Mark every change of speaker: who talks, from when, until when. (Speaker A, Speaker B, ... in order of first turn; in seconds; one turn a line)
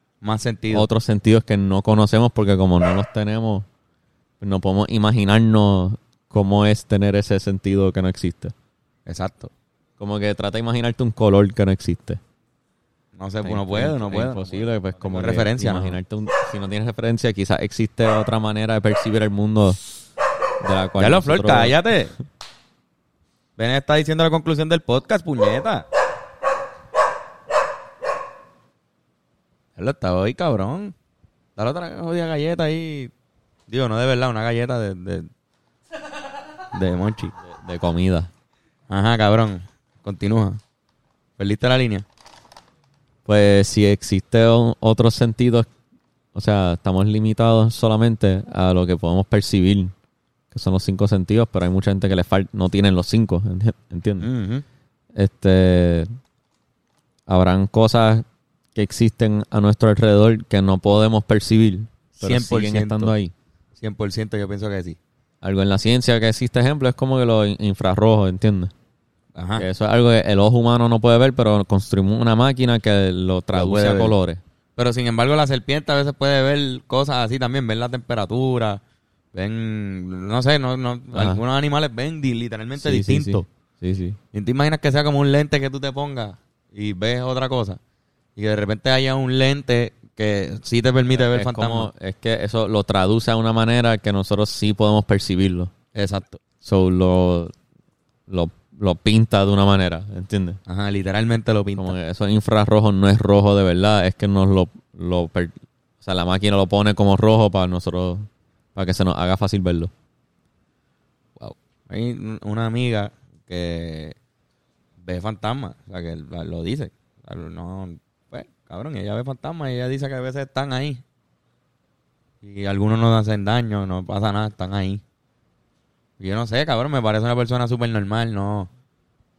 Speaker A: 0.2-0.8
Speaker B: 0.7-3.6
Speaker B: 4.4-8.5
Speaker A: 9.1-9.5
Speaker B: 10.0-12.2
Speaker A: 13.2-16.0
Speaker B: 13.4-19.8
Speaker B: 20.6-21.7
Speaker A: 21.0-22.1
Speaker A: 23.6-25.9
Speaker A: 29.8-30.9
Speaker A: 31.6-33.1
Speaker A: 33.7-35.3
Speaker A: 36.7-37.3
Speaker B: 37.4-38.3
Speaker A: 38.9-40.6
Speaker A: 41.4-42.0
Speaker B: 43.2-45.7
Speaker B: 46.3-49.9
Speaker B: 50.5-54.3
Speaker A: 54.2-54.6
Speaker B: 55.1-56.1
Speaker B: 57.3-63.3
Speaker A: 62.1-63.1
Speaker A: 63.8-65.0
Speaker B: 65.4-68.7
Speaker A: 69.3-69.6
Speaker B: 69.6-74.4
Speaker A: 73.5-74.1
Speaker A: 74.8-78.8
Speaker A: 79.3-83.4
Speaker B: 81.1-81.4
Speaker B: 82.8-84.2
Speaker A: 84.3-87.8
Speaker A: 88.3-91.9
Speaker B: 91.1-95.7
Speaker A: 95.9-96.4
Speaker B: 96.6-97.5
Speaker B: 98.3-100.6
Speaker A: 100.7-102.0
Speaker B: 101.8-109.9
Speaker A: 111.4-114.1
Speaker A: 115.0-121.0
Speaker A: 122.4-125.0
Speaker A: 126.2-128.7